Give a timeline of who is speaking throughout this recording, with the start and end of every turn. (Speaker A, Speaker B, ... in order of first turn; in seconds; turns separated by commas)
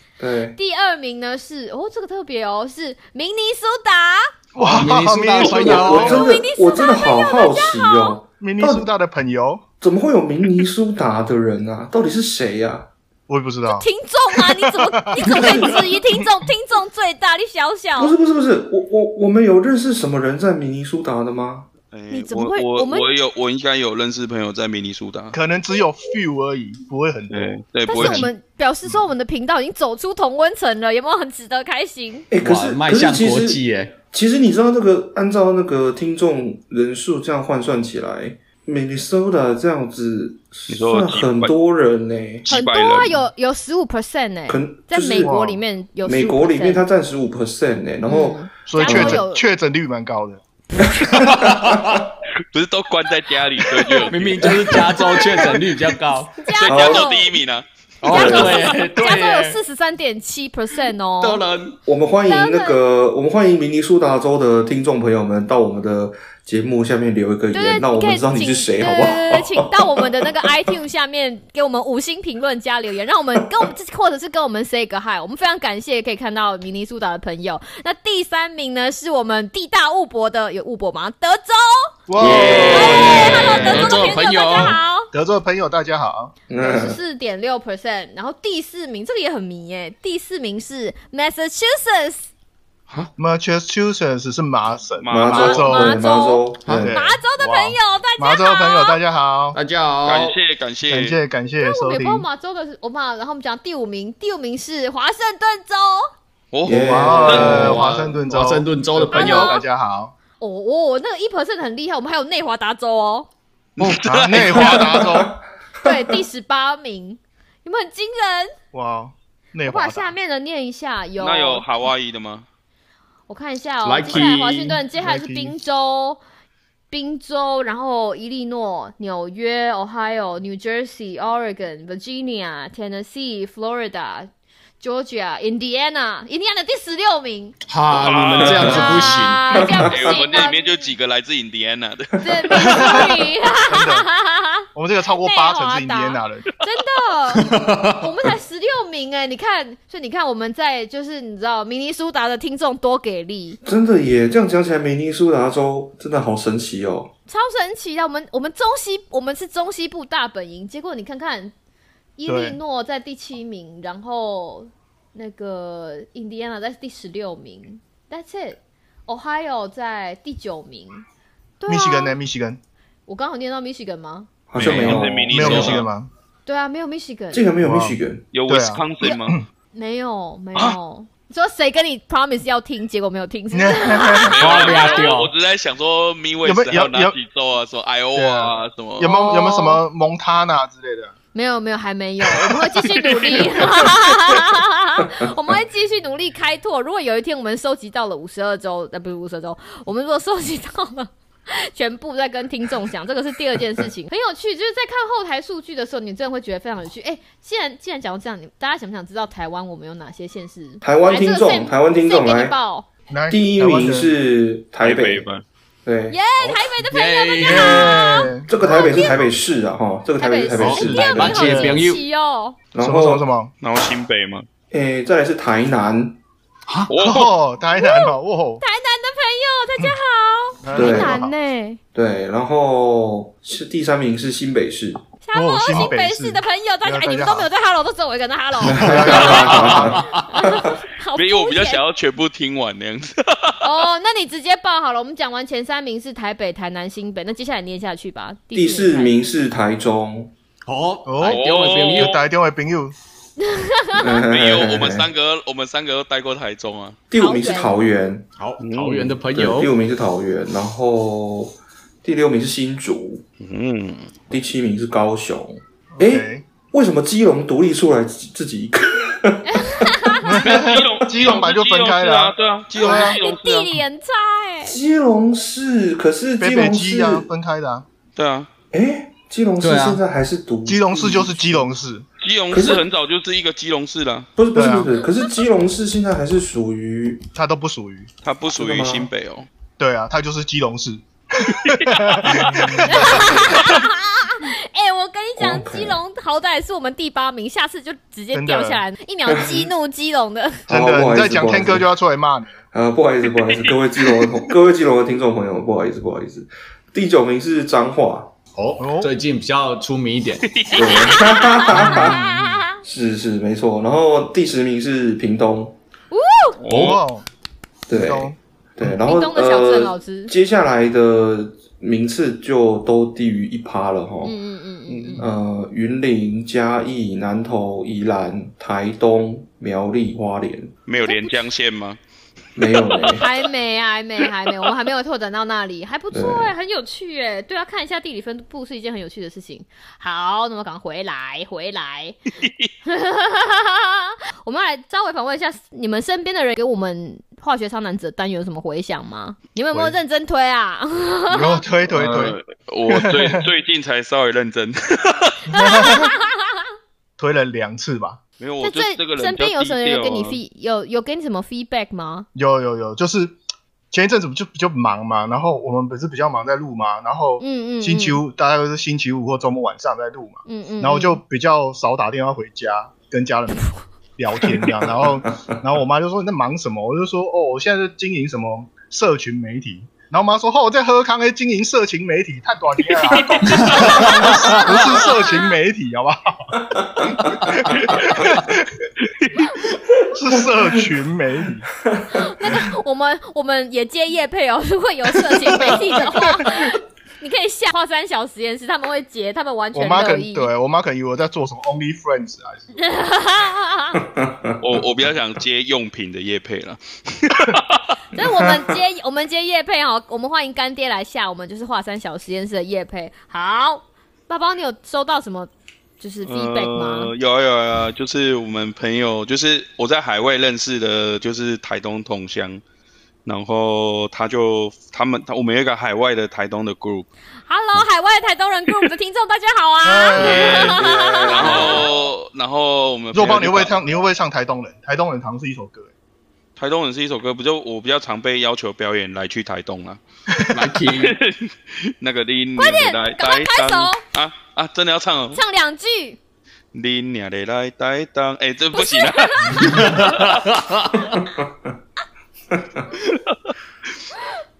Speaker A: 0.2-0.6, Speaker B: 0.6-4.3, Speaker C: 4.6-6.2, Speaker D: 4.6-6.2, Speaker A: 5.5-8.9, Speaker B: 5.9-8.2, Speaker C: 8.4-9.7, Speaker A: 9.8-12.9, Speaker C: 13.3-13.9, Speaker B: 13.7-18.1, Speaker C: 14.5-14.9, Speaker A: 15.3-15.8, Speaker A: 18.0-21.7, Speaker E: 21.9-25.4, Speaker B: 22.1-23.1, Speaker C: 25.3-28.3, Speaker E: 27.3-28.3, Speaker B: 27.9-32.3, Speaker A: 32.3-42.5, Speaker D: 32.4-34.0, Speaker E: 40.7-41.5, Speaker E: 42.4-43.1, Speaker B: 42.5-46.8, Speaker A: 44.5-49.2, Speaker C: 45.2-45.5, Speaker B: 48.1-49.4, Speaker C: 48.7-50.4, Speaker A: 51.0-52.0, Speaker D: 51.1-52.1, Speaker E: 52.5-54.8, Speaker D: 54.1-56.4, Speaker B: 54.9-55.6, Speaker B: 56.4-57.3, Speaker E: 56.6-57.7, Speaker A: 56.6-57.1, Speaker D: 58.0-59.6, Speaker A: 58.0-58.7, Speaker B: 58.1-61.4, Speaker D: 61.2-61.8, Speaker A: 61.9-70.0, Speaker B: 62.3-62.8, Speaker B: 67.5-85.1, Speaker C: 82.1-83.8, Speaker D: 82.2-84.8, Speaker A: 82.2-83.0, Speaker C: 85.1-86.3, Speaker A: 86.5-87.0, Speaker B: 86.6-92.3, Speaker C: 93.2-96.0, Speaker E: 95.0-95.7, Speaker A: 95.1-96.9, Speaker B: 95.3-99.0, Speaker D: 96.7-97.8, Speaker C: 96.7-97.2, Speaker C: 98.2-99.6, Speaker D: 99.5-100.4, Speaker E: 100.0-101.2, Speaker C: 100.9-102.3, Speaker B: 101.6-106.1, Speaker E: 106.5-107.8, Speaker A: 106.7-107.8, Speaker C: 106.7-110.1, Speaker D: 107.1-109.6, Speaker B: 109.1-109.6, Speaker B: 110.4-113.3, Speaker E: 113.8-115.2, Speaker C: 113.8-115.4, Speaker A: 114.4-116.0, Speaker B: 115.8-118.6, Speaker C: 118.7-120.1, Speaker B: 119.7-121.7, Speaker E: 121.2-122.5, Speaker B: 123.3-126.2, Speaker D: 123.8-124.8, Speaker C: 125.0-125.5, Speaker B: 126.9-137.6, Speaker D: 137.7-139.7, Speaker E: 137.9-139.0, Speaker B: 138.6-140.7, Speaker A: 139.5-139.9, Speaker E: 139.8-143.1, Speaker B: 142.2-144.7, Speaker C: 142.6-143.1, Speaker C: 143.7-144.1, Speaker C: 144.7-146.5, Speaker B: 145.2-153.6, Speaker D: 147.3-148.1, Speaker A: 153.6-157.1, Speaker B: 157.3-161.5, Speaker B: 162.2-171.1, Speaker C: 162.3-162.6, Speaker B: 171.6-172.2, Speaker C: 171.7-172.6, Speaker B: 173.1-174.3, Speaker A: 174.5-175.8, Speaker E: 174.6-175.9, Speaker C: 174.8-176.1, Speaker B: 176.5-177.5, Speaker A: 177.3-178.2, Speaker C: 177.6-179.5, Speaker E: 178.3-179.4, Speaker B: 179.7-185.1, Speaker C: 183.5-184.3, Speaker E: 184.3-189.1, Speaker D: 184.4-185.3, Speaker C: 186.4-187.2, Speaker C: 188.2-191.2, Speaker B: 189.0-189.8, Speaker B: 191.3-212.9, Speaker E: 192.8-193.9, Speaker A: 210.8-212.6, Speaker C: 213.1-214.1, Speaker A: 213.3-215.3, Speaker E: 214.8-215.4, Speaker A: 215.8-216.2, Speaker B: 216.1-219.3, Speaker D: 216.4-218.0, Speaker C: 217.4-219.2, Speaker A: 218.5-221.5, Speaker B: 220.2-222.6, Speaker D: 220.6-222.0, Speaker C: 221.3-221.8, Speaker A: 222.7-223.2, Speaker C: 222.8-223.5, Speaker E: 223.6-224.5, Speaker A: 224.7-226.2, Speaker E: 226.9-227.3, Speaker C: 227.0-228.6, Speaker B: 227.7-231.8, Speaker C: 230.6-231.3, Speaker A: 230.7-231.2, Speaker A: 231.9-235.0, Speaker B: 235.2-241.8, Speaker C: 235.3-237.5, Speaker A: 238.6-240.7, Speaker C: 238.7-240.0, Speaker D: 239.1-240.2, Speaker E: 241.2-243.6, Speaker B: 243.6-249.1, Speaker A: 248.5-250.3, Speaker D: 250.7-252.2, Speaker C: 251.1-252.9, Speaker E: 251.2-252.2, Speaker B: 253.4-254.2, Speaker A: 253.9-255.1, Speaker E: 254.2-257.0, Speaker A: 257.1-258.3, Speaker B: 257.2-257.8, Speaker D: 258.4-259.7, Speaker E: 258.6-259.2, Speaker A: 259.3-263.2, Speaker E: 263.4-264.1, Speaker A: 264.3-270.2, Speaker C: 265.9-266.4, Speaker B: 269.4-270.5, Speaker C: 270.2-273.2, Speaker E: 270.4-273.8, Speaker B: 272.8-274.8, Speaker A: 274.6-277.3, Speaker C: 276.4-277.9, Speaker E: 278.2-278.5, Speaker A: 278.7-281.6, Speaker D: 279.6-280.0, Speaker C: 280.7-282.1, Speaker E: 282.2-284.3, Speaker A: 282.5-282.8, Speaker A: 284.4-287.2, Speaker C: 284.6-284.9, Speaker C: 287.3-288.1, Speaker E: 288.2-289.5, Speaker A: 288.6-289.1, Speaker C: 289.8-293.7, Speaker E: 291.6-293.4, Speaker B: 292.9-300.7, Speaker A: 295.4-296.0, Speaker C: 298.3-298.8, Speaker A: 299.3-299.7, Speaker A: 300.7-301.9, Speaker C: 300.7-302.6, Speaker A: 302.7-308.3, Speaker E: 303.5-304.3, Speaker D: 308.6-310.5, Speaker C: 308.8-309.1, Speaker E: 310.5-311.4, Speaker A: 310.7-312.3, Speaker B: 310.9-312.8, Speaker C: 311.8-312.5, Speaker A: 312.8-315.8, Speaker B: 316.1-316.6, Speaker E: 316.6-317.0, Speaker C: 316.7-317.3, Speaker A: 317.9-324.4, Speaker C: 317.9-318.4, Speaker B: 319.0-320.3, Speaker B: 324.2-325.3, Speaker A: 324.9-330.7, Speaker E: 330.9-332.0, Speaker B: 331.1-331.4, Speaker A: 332.6-333.2, Speaker E: 332.9-333.2, Speaker B: 333.1-342.2, Speaker A: 336.1-336.5, Speaker E: 342.4-342.7, Speaker B: 342.9-351.6, Speaker C: 351.3-352.4, Speaker E: 351.9-355.4, Speaker C: 352.9-353.4, Speaker C: 355.5-356.1, Speaker B: 355.5-356.6, Speaker C: 357.2-358.2, Speaker E: 358.4-360.4, Speaker B: 358.6-362.3, Speaker C: 362.4-363.4, Speaker C: 363.9-388.9, Speaker B: 367.4-368.2, Speaker B: 370.5-371.2, Speaker E: 383.1-384.0, Speaker D: 383.4-384.7, Speaker B: 383.7-385.5, Speaker C: 390.1-391.7, Speaker A: 390.3-390.9, Speaker A: 391.8-392.2, Speaker B: 392.1-400.5, Speaker C: 399.7-402.8, Speaker B: 402.8-404.1, Speaker A: 404.0-404.6, Speaker E: 404.6-407.9, Speaker B: 408.1-417.1, Speaker E: 416.3-422.6, Speaker E: 423.2-427.1, Speaker B: 427.5-431.9, Speaker C: 429.8-430.8, Speaker E: 430.2-433.8, Speaker A: 430.8-431.8, Speaker C: 433.1-435.9, Speaker E: 436.6-440.0, Speaker C: 440.4-440.7, Speaker D: 440.5-441.2, Speaker E: 440.9-445.4, Speaker B: 442.6-444.0, Speaker B: 445.3-446.2, Speaker E: 446.7-450.4, Speaker B: 448.7-450.0, Speaker D: 449.6-451.1, Speaker A: 451.2-451.7, Speaker A: 452.5-452.8, Speaker E: 453.1-453.5